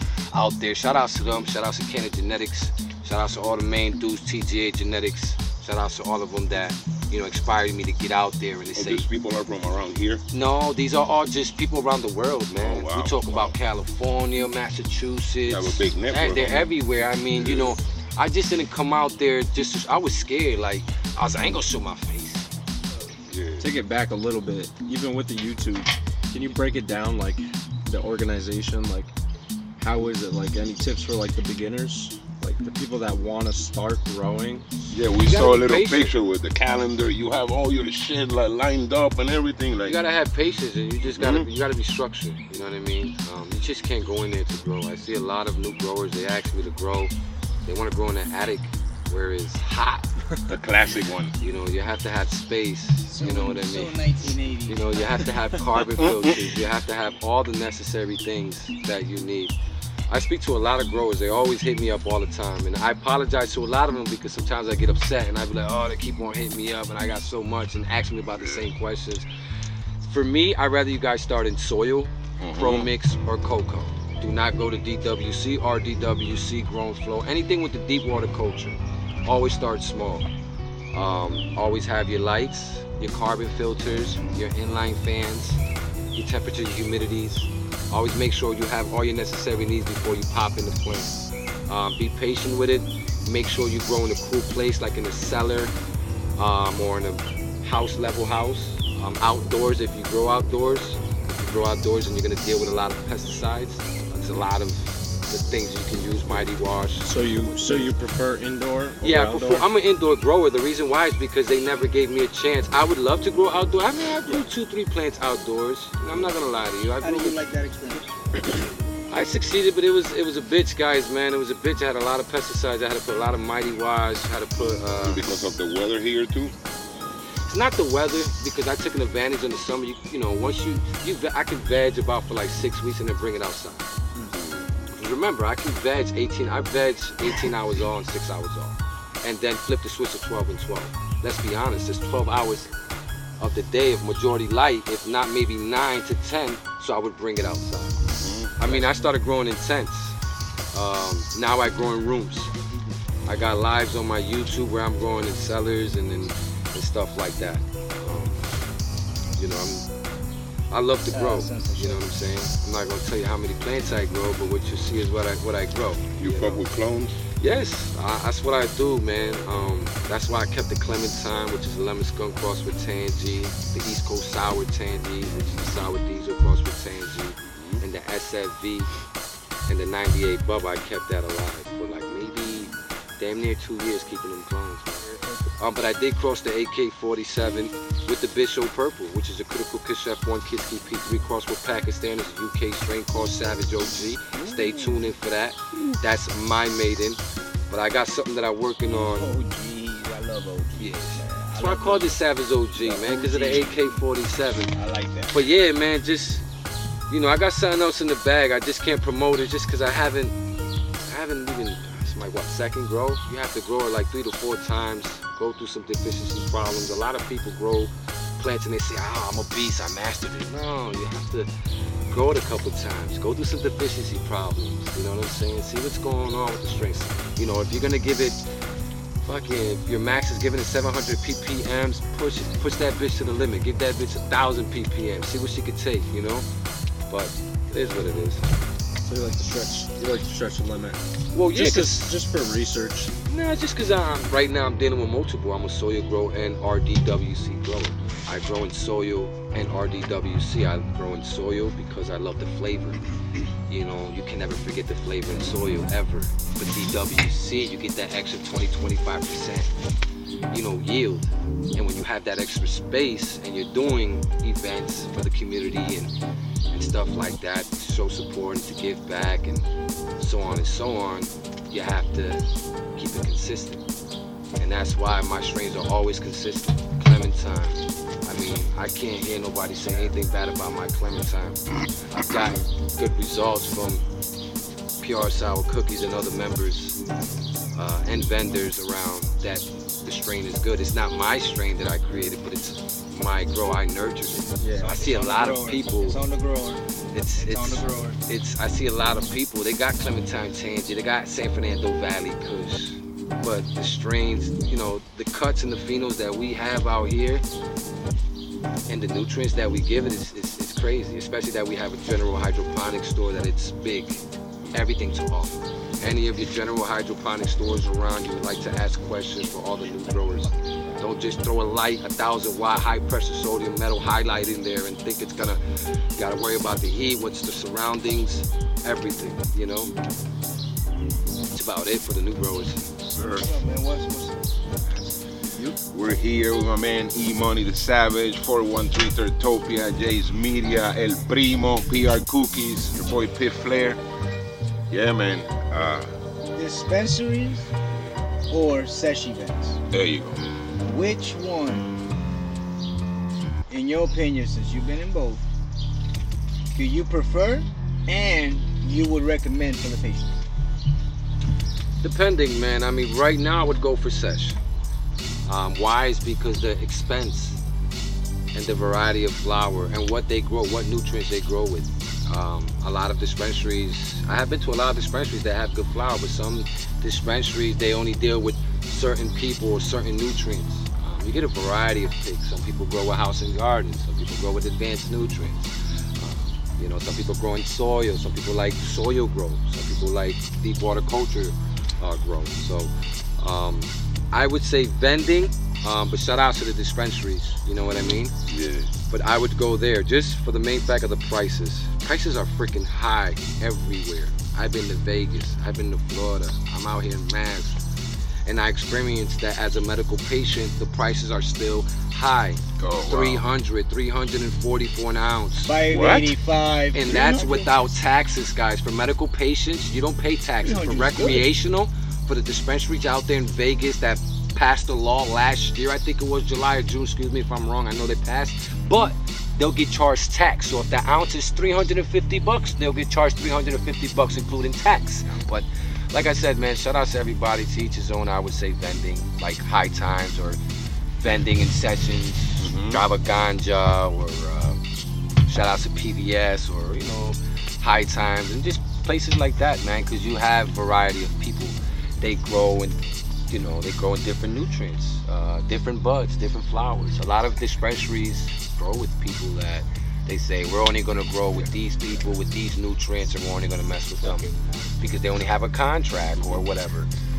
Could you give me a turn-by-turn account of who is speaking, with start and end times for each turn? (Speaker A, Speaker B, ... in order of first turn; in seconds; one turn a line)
Speaker A: 0.3-9.1
Speaker B: 8.8-10.2
Speaker A: 10.3-22.5
Speaker B: 12.6-13.5
Speaker B: 15.5-16.7
Speaker B: 17.3-17.8
Speaker B: 23.3-23.7
Speaker C: 23.6-29.1
Speaker C: 29.8-34.7
Speaker B: 34.9-40.0
Speaker A: 35.2-36.1
Speaker A: 39.9-47.1
Speaker B: 41.0-41.5
Speaker A: 47.7-50.1
Speaker B: 50.5-51.3
Speaker A: 51.4-54.0
Speaker D: 53.1-55.4
Speaker A: 54.7-59.5
Speaker A: 60.1-69.3
Speaker B: 68.3-68.7
Speaker A: 70.0-80.3
Speaker B: 72.4-72.9
Speaker A: 80.9-85.6
Speaker A: 86.1-95.7
Speaker A: 96.4-107.1
Speaker C: 107.0-109.7
Speaker A: 109.0-117.4
Speaker D: 117.0-118.2
Speaker A: 119.1-125.2
Speaker B: 125.0-126.5
Speaker A: 127.5-133.9
Speaker B: 134.3-134.7
Speaker A: 134.9-142.7
Speaker A: 143.4-148.0
Speaker B: 148.1-148.5
Speaker A: 148.6-150.2
Speaker A: 150.7-152.5
Speaker A: 153.3-158.4
Speaker A: 159.3-159.9
Speaker A: 160.7-166.7
Speaker D: 161.1-162.1
Speaker B: 166.2-167.2
Speaker A: 167.4-178.9
Speaker B: 177.4-177.8
Speaker A: 179.7-199.3
Speaker D: 194.3-195.1
Speaker D: 199.1-202.2
Speaker A: 200.8-204.8
Speaker D: 202.8-204.0
Speaker D: 204.7-205.4
Speaker A: 205.3-206.5
Speaker A: 207.1-210.3
Speaker A: 211.1-221.5
Speaker A: 222.1-228.4
Speaker A: 229.2-236.5
Speaker A: 237.1-238.4
Speaker C: 239.0-243.1
Speaker A: 241.3-242.1
Speaker A: 243.2-253.0
Speaker A: 253.7-259.7
Speaker A: 260.5-266.1
Speaker A: 266.7-269.7
Speaker A: 270.2-273.9
Speaker A: 274.6-284.0
Speaker A: 285.0-287.0
Speaker A: 287.7-296.2
Speaker C: 294.6-294.9
Speaker D: 294.6-296.8
Speaker A: 297.1-307.4
Speaker D: 297.4-298.2
Speaker A: 308.9-325.6
Speaker D: 320.6-321.0
Speaker A: 326.2-329.9
Speaker A: 331.5-332.9
Speaker B: 332.9-333.5
Speaker D: 333.3-334.4
Speaker D: 335.5-335.7
Speaker B: 335.9-344.0
Speaker B: 344.9-346.1
Speaker D: 346.5-347.7
Speaker D: 348.5-349.8
Speaker B: 349.9-350.4
Speaker D: 350.8-351.9
Speaker D: 353.7-355.4
Speaker D: 356.7-360.4
Speaker A: 362.0-364.6
Speaker A: 365.5-367.6
Speaker A: 368.5-398.4
Speaker B: 398.4-398.9
Speaker A: 399.1-407.8
Speaker A: 408.4-416.2
Speaker B: 412.8-413.4
Speaker D: 415.6-417.8
Speaker B: 415.9-416.4
Speaker A: 416.9-440.6
Speaker D: 420.6-421.5
Speaker D: 428.7-429.1
Speaker A: 441.2-444.8
Speaker B: 442.6-443.0
Speaker A: 445.5-464.5
Speaker D: 464.2-465.0
Speaker A: 465.0-467.1
Speaker B: 466.4-466.6